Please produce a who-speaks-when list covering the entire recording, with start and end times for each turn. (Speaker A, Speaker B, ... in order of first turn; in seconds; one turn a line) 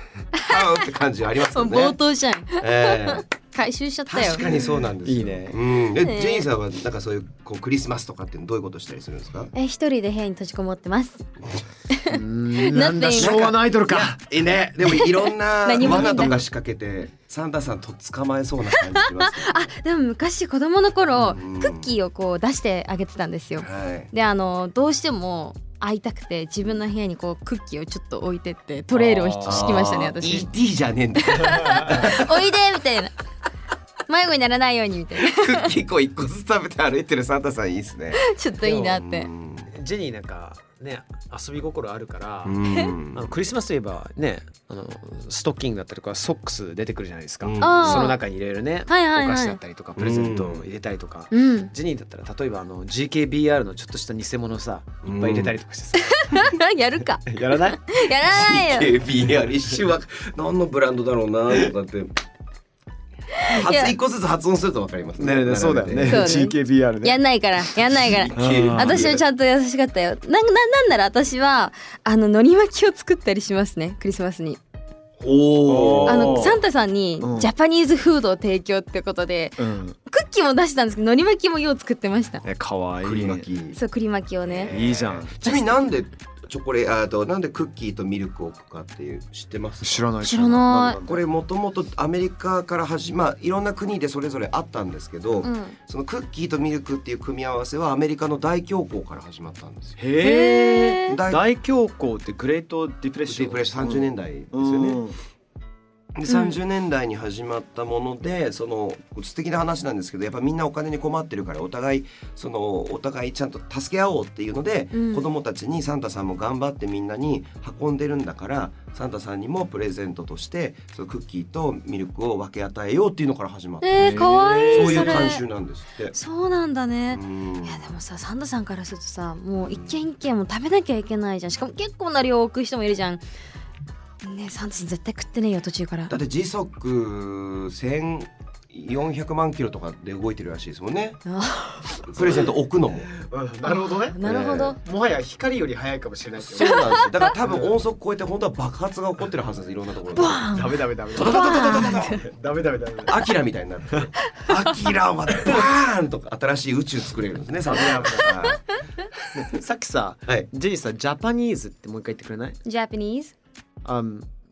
Speaker A: 0.4-0.8
Speaker B: 0.4-2.0
Speaker A: 1.5-4.5
Speaker B: 2.6-3.2
Speaker B: 4.1-9.5
Speaker C: 5.0-5.6
Speaker A: 6.0-6.5
Speaker A: 9.5-11.2
Speaker A: 11.9-13.5
Speaker C: 12.1-14.2
Speaker B: 13.2-19.7
Speaker A: 14.8-16.4
Speaker C: 15.8-16.4
Speaker A: 18.7-30.5
Speaker B: 21.2-21.9
Speaker B: 23.6-24.1
Speaker C: 28.9-29.9
Speaker B: 29.4-32.5
Speaker A: 31.2-33.1
Speaker C: 31.4-32.1
Speaker A: 34.1-35.7
Speaker B: 35.2-39.7
Speaker A: 38.1-39.3
Speaker C: 38.6-38.9
Speaker C: 39.7-56.5
Speaker B: 42.5-43.3
Speaker B: 47.4-48.1
Speaker A: 47.6-48.2
Speaker A: 48.9-49.6
Speaker B: 50.0-50.7
Speaker A: 51.3-51.7
Speaker B: 55.0-55.5
Speaker A: 56.0-59.0
Speaker C: 57.3-57.8
Speaker B: 58.1-62.1
Speaker A: 63.4-64.0
Speaker B: 63.5-66.4
Speaker C: 65.2-67.2
Speaker A: 66.0-74.6
Speaker B: 67.9-69.2
Speaker C: 68.3-69.2
Speaker B: 75.2-76.6
Speaker C: 75.7-76.6
Speaker A: 76.1-82.4
Speaker C: 77.2-77.5
Speaker C: 79.6-80.0
Speaker C: 82.4-83.5
Speaker B: 83.0-83.8
Speaker A: 83.8-84.7
Speaker B: 84.5-90.0
Speaker C: 84.7-85.3
Speaker C: 89.8-91.2
Speaker A: 90.2-91.0
Speaker B: 91.0-100.0
Speaker A: 95.4-95.8
Speaker C: 100.0-105.2
Speaker A: 100.2-101.2
Speaker B: 101.1-101.4
Speaker B: 103.3-105.0
Speaker B: 106.2-126.2
Speaker A: 106.3-106.6
Speaker A: 114.9-115.3
Speaker A: 123.8-125.4
Speaker C: 124.0-125.3
Speaker A: 126.1-133.2
Speaker B: 127.1-127.9
Speaker B: 129.6-130.0
Speaker A: 134.2-136.2
Speaker B: 136.1-141.2
Speaker A: 141.3-142.0
Speaker B: 142.1-143.1
Speaker C: 143.1-147.7
Speaker A: 143.7-144.8
Speaker B: 144.2-144.7
Speaker B: 146.4-150.5
Speaker A: 146.7-147.3
Speaker A: 150.1-152.2
Speaker C: 150.5-153.2
Speaker B: 151.1-152.2
Speaker B: 153.1-158.6
Speaker C: 153.9-154.8
Speaker C: 157.7-158.3
Speaker C: 159.3-162.6
Speaker A: 162.7-163.3
Speaker C: 163.8-164.3